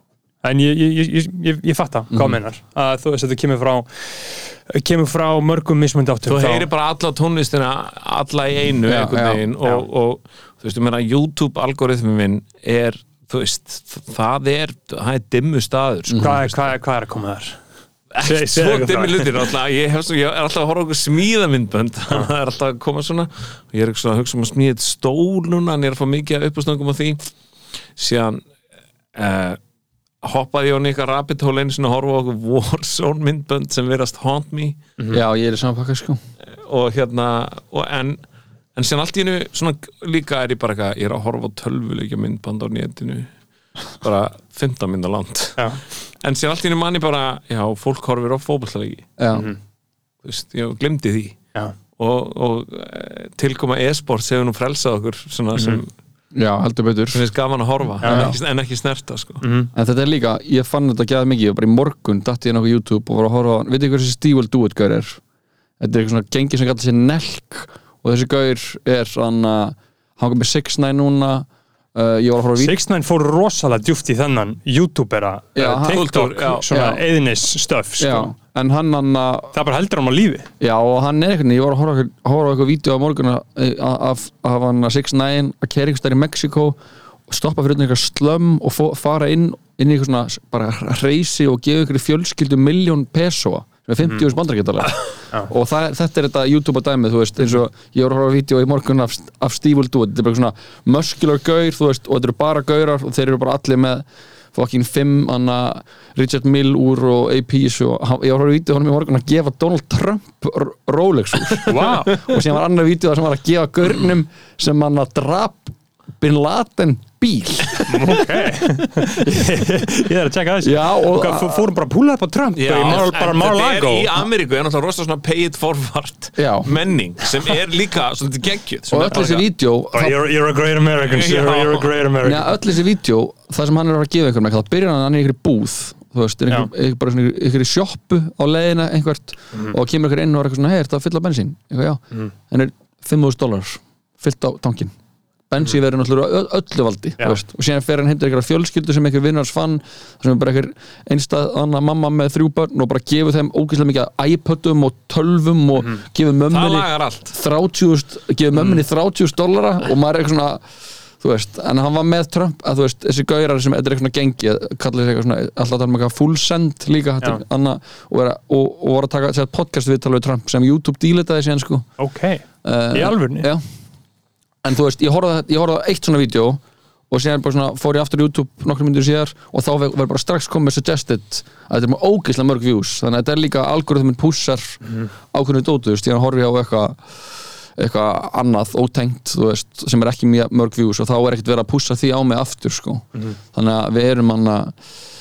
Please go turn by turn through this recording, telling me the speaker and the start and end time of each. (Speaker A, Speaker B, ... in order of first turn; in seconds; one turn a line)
Speaker A: 0.4-6.7
Speaker B: 2.1-2.4
Speaker C: 6.3-16.7
Speaker B: 8.8-9.4
Speaker A: 16.2-17.6
Speaker C: 18.1-27.2
Speaker A: 18.2-19.5
Speaker C: 27.9-28.4
Speaker C: 29.1-29.6
Speaker C: 30.2-34.8
Speaker B: 35.1-36.2
Speaker C: 36.5-38.2
Speaker C: 38.8-43.3
Speaker C: 43.9-49.1
Speaker A: 45.6-45.8
Speaker B: 49.2-49.5
Speaker A: 49.3-49.6
Speaker C: 50.2-51.4
Speaker C: 52.0-55.9
Speaker A: 55.6-55.8
Speaker B: 56.3-57.2
Speaker C: 57.1-59.4
Speaker A: 58.0-58.3
Speaker B: 58.0-58.4
Speaker A: 59.4-59.7
Speaker B: 59.7-65.2
Speaker B: 65.8-72.8
Speaker A: 72.6-78.3
Speaker B: 75.5-76.0
Speaker C: 75.8-76.7
Speaker B: 76.7-77.0
Speaker B: 78.0-79.5
Speaker A: 79.5-80.5
Speaker B: 80.6-118.2
Speaker A: 111.6-112.2
Speaker A: 117.8-124.2
Speaker B: 119.2-119.6
Speaker B: 120.6-121.7
Speaker C: 122.5-129.4
Speaker B: 126.4-126.8
Speaker B: 128.9-130.2
Speaker A: 129.9-132.5
Speaker C: 131.0-131.9
Speaker B: 132.2-144.9
Speaker B: 145.5-160.6
Speaker C: 156.5-157.3
Speaker A: 158.6-158.8
Speaker B: 161.2-171.9
Speaker A: 172.0-173.5
Speaker B: 172.6-173.6
Speaker B: 174.6-194.8